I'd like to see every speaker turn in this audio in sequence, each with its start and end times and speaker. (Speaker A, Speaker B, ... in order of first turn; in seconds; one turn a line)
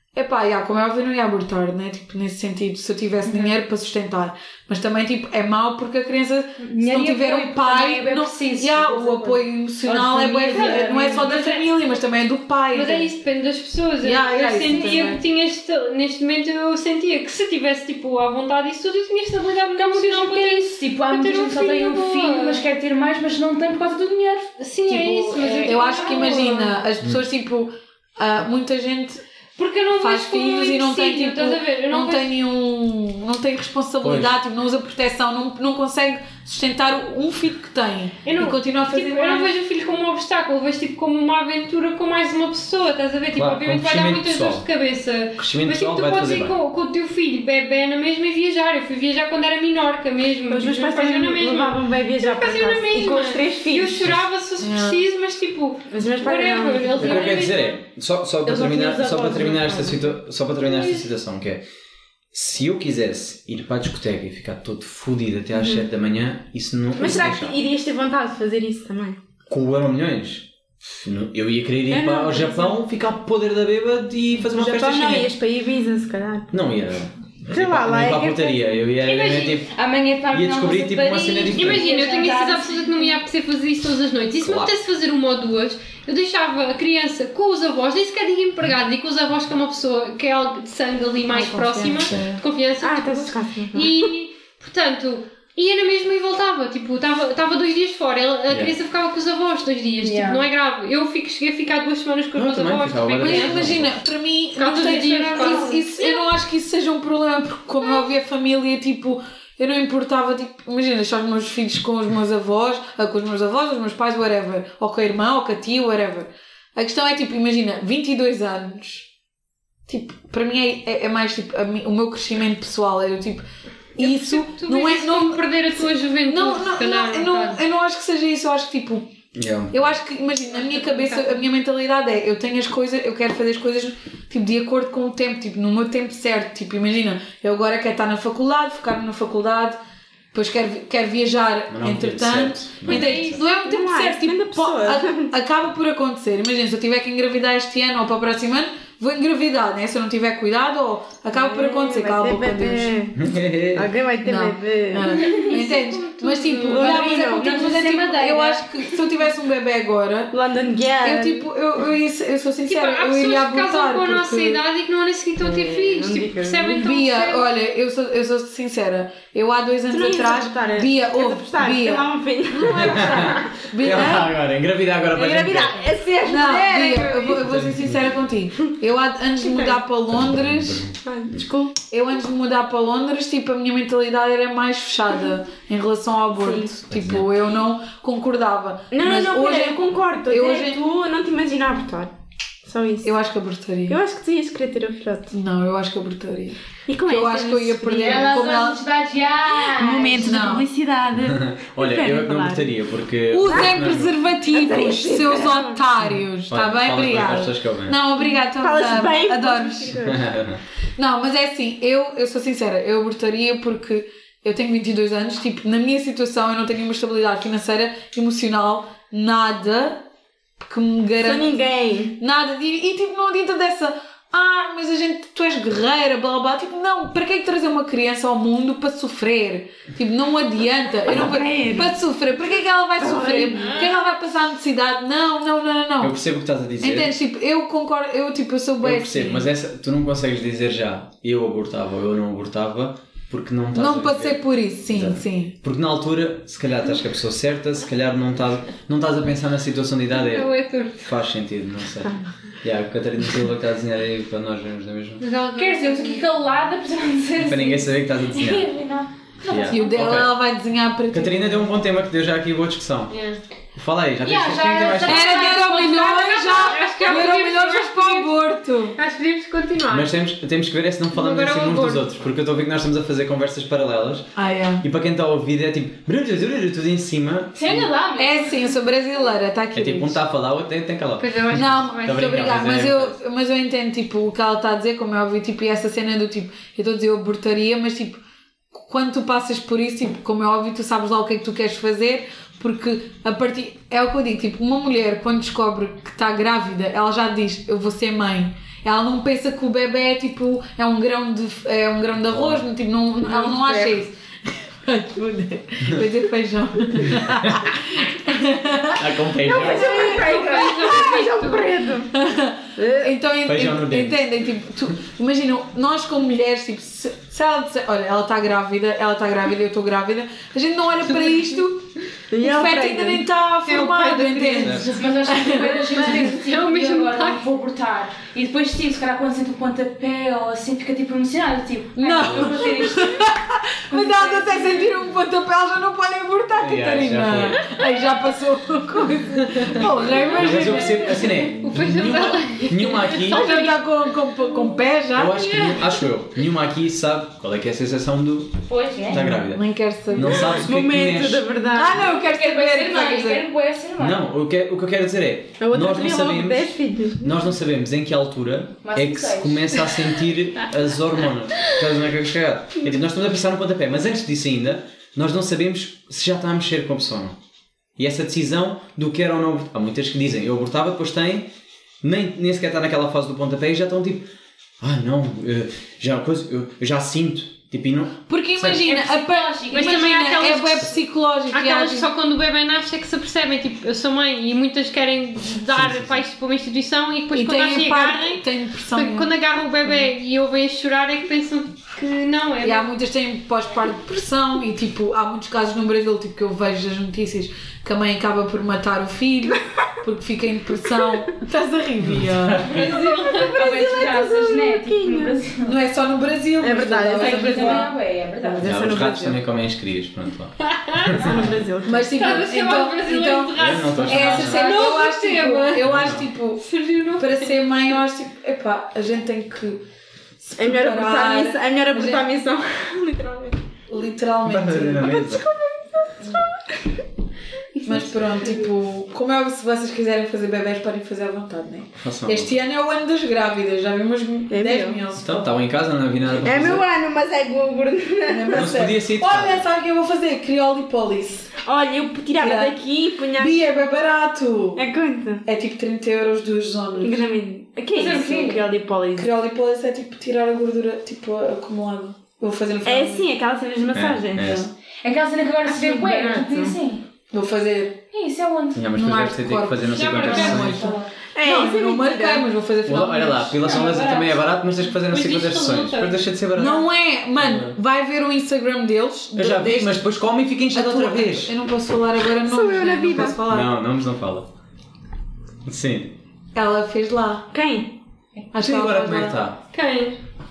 Speaker A: 0.1-13.1
Speaker B: 3.2-3.5
Speaker B: 6.6-11.5
Speaker C: 10.5-11.6
Speaker C: 12.7-22.6
Speaker A: 14.0-15.2
Speaker B: 14.5-15.1
Speaker B: 19.8-26.6
Speaker C: 24.6-26.7
Speaker A: 25.6-29.2
Speaker C: 29.6-32.3
Speaker A: 30.0-39.5
Speaker D: 34.0-34.4
Speaker C: 38.2-57.8
Speaker D: 43.3-44.6
Speaker D: 45.4-46.6
Speaker E: 50.5-54.1
Speaker A: 54.6-55.0
Speaker E: 55.9-57.4
Speaker D: 57.0-61.6
Speaker E: 58.5-60.1
Speaker C: 60.6-60.9
Speaker D: 62.3-67.6
Speaker E: 65.5-65.8
Speaker E: 66.9-69.2
Speaker D: 69.5-75.3
Speaker E: 71.9-72.8
Speaker E: 74.5-76.5
Speaker D: 76.5-79.7
Speaker E: 77.5-78.6
Speaker B: 79.0-83.2
Speaker D: 80.3-81.9
Speaker C: 81.5-103.7
Speaker D: 84.4-84.7
Speaker A: 91.3-92.4
Speaker E: 92.8-94.0
Speaker D: 98.5-98.7
Speaker B: 100.0-100.4
Speaker D: 102.3-104.0
Speaker A: 103.2-119.1
Speaker C: 104.6-106.3
Speaker B: 105.3-105.8
Speaker A: 119.9-123.4
Speaker A: 124.0-129.1
Speaker C: 124.0-127.6
Speaker D: 129.3-129.9
Speaker A: 129.7-139.8
Speaker C: 130.5-131.4
Speaker A: 140.3-153.1
Speaker D: 141.7-143.4
Speaker C: 142.8-143.4
Speaker E: 143.4-145.3
Speaker E: 151.3-153.2
Speaker D: 153.2-153.9
Speaker E: 153.7-155.6
Speaker A: 154.2-160.3
Speaker C: 155.1-157.0
Speaker E: 156.6-157.6
Speaker B: 157.1-158.6
Speaker E: 160.3-161.5
Speaker A: 161.0-164.6
Speaker C: 162.7-167.5
Speaker E: 165.4-166.9
Speaker A: 166.8-174.3
Speaker E: 169.9-174.3
Speaker D: 172.7-175.9
Speaker E: 175.1-177.4
Speaker A: 176.2-180.9
Speaker D: 177.4-178.3
Speaker E: 179.4-179.8
Speaker D: 180.1-180.9
Speaker E: 181.0-181.8
Speaker A: 181.9-190.8
Speaker E: 186.4-186.7
Speaker D: 186.9-187.3
Speaker E: 188.9-192.1
Speaker E: 192.6-193.1
Speaker A: 193.0-194.0
Speaker E: 193.9-195.3
Speaker A: 195.3-198.8
Speaker E: 196.9-198.6
Speaker B: 198.0-200.5
Speaker E: 199.6-202.7
Speaker A: 200.2-200.7
Speaker D: 201.2-204.2
Speaker A: 203.3-210.1
Speaker E: 203.4-203.8
Speaker E: 204.4-205.9
Speaker D: 206.1-208.0
Speaker E: 208.2-210.2
Speaker D: 210.1-210.6
Speaker A: 211.0-220.0
Speaker A: 220.6-221.6
Speaker E: 221.2-222.2
Speaker A: 222.2-236.2
Speaker E: 231.0-231.9
Speaker E: 233.0-233.9
Speaker D: 236.0-237.1
Speaker A: 236.8-239.5
Speaker D: 238.8-250.5
Speaker A: 243.7-245.5
Speaker C: 250.1-251.1
Speaker D: 251.0-255.2
Speaker C: 255.2-256.2
Speaker B: 255.5-260.1
Speaker D: 257.4-258.7
Speaker D: 259.5-260.4
Speaker A: 259.7-261.7
Speaker D: 261.1-263.2
Speaker C: 263.1-263.4
Speaker D: 263.8-265.5
Speaker B: 264.2-267.0
Speaker A: 265.0-269.0
Speaker C: 265.4-270.1
Speaker D: 269.9-277.9
Speaker C: 271.1-272.1
Speaker A: 274.4-274.8
Speaker B: 277.5-278.6
Speaker A: 278.2-280.2
Speaker D: 279.7-283.2
Speaker C: 281.2-282.5
Speaker A: 281.5-288.2
Speaker A: 288.7-304.1
Speaker D: 302.3-302.6
Speaker E: 303.2-304.0
Speaker A: 304.6-309.6
Speaker D: 307.0-307.7
Speaker D: 308.9-310.1
Speaker E: 309.4-312.1
Speaker C: 309.6-311.7
Speaker A: 312.1-326.3
Speaker E: 312.8-313.1
Speaker D: 313.4-314.2
Speaker C: 321.0-321.6
Speaker E: 322.3-323.3
Speaker B: 324.5-333.3
Speaker D: 324.6-324.9
Speaker C: 326.0-327.4
Speaker A: 332.0-341.5
Speaker D: 332.2-332.6
Speaker B: 333.9-335.0
Speaker D: 336.6-337.7
Speaker C: 340.1-343.8
Speaker D: 340.3-343.6
Speaker A: 343.3-345.4
Speaker D: 345.1-348.6
Speaker C: 345.3-346.0
Speaker B: 348.7-349.2
Speaker D: 349.1-351.4
Speaker A: 349.2-350.5
Speaker E: 350.5-352.0
Speaker A: 351.7-353.4
Speaker B: 352.0-354.3
Speaker D: 354.0-367.4
Speaker E: 355.6-357.3
Speaker B: 358.8-359.9
Speaker D: 368.0-371.5
Speaker D: 372.0-374.3
Speaker D: 374.8-378.9
Speaker A: 378.3-382.1
Speaker B: 378.8-380.4
Speaker C: 379.7-392.9
Speaker D: 385.7-386.2
Speaker A: 387.3-389.3
Speaker A: 392.6-402.7
Speaker D: 402.0-403.1
Speaker C: 402.6-403.9
Speaker E: 403.3-405.4
Speaker B: 403.4-405.7
Speaker A: 405.6-407.9
Speaker E: 406.6-407.9
Speaker B: 407.1-408.7
Speaker E: 408.5-409.4
Speaker D: 408.6-411.4
Speaker C: 410.6-411.1
Speaker E: 411.2-412.1
Speaker A: 411.8-419.8
Speaker C: 412.1-415.9
Speaker D: 413.6-414.8
Speaker D: 415.8-416.3
Speaker C: 416.6-417.6
Speaker A: 420.4-422.2
Speaker E: 420.5-423.6
Speaker A: 423.9-425.1
Speaker D: 424.4-425.4
Speaker E: 425.0-427.0
Speaker E: 427.8-428.6
Speaker A: 427.9-435.6
Speaker D: 432.0-432.6
Speaker E: 434.5-435.0
Speaker D: 435.1-436.9
Speaker E: 436.4-438.8
Speaker A: 438.3-441.5
Speaker D: 438.5-439.6
Speaker E: 441.6-443.6
Speaker A: 442.3-442.8
Speaker A: 443.3-444.9
Speaker E: 444.8-445.4
Speaker A: 445.4-447.2
Speaker E: 447.0-449.3
Speaker B: 447.9-448.6
Speaker A: 449.1-453.3
Speaker E: 452.8-454.7
Speaker D: 453.9-454.7
Speaker B: 455.0-457.0
Speaker E: 455.6-456.8
Speaker A: 457.3-458.0
Speaker B: 458.1-458.8
Speaker D: 458.7-460.9
Speaker A: 458.9-463.6
Speaker C: 459.9-460.7
Speaker B: 460.3-461.1
Speaker E: 461.3-462.5
Speaker D: 462.8-466.9
Speaker B: 463.6-464.4
Speaker C: 465.0-466.2
Speaker A: 466.5-470.0
Speaker D: 467.4-467.8
Speaker D: 469.3-471.5
Speaker A: 470.7-473.7
Speaker E: 472.3-473.4
Speaker D: 473.1-474.5
Speaker D: 475.6-476.1
Speaker A: 476.5-477.5
Speaker E: 477.5-477.9
Speaker A: 478.5-479.3
Speaker D: 478.6-479.6
Speaker C: 479.7-480.2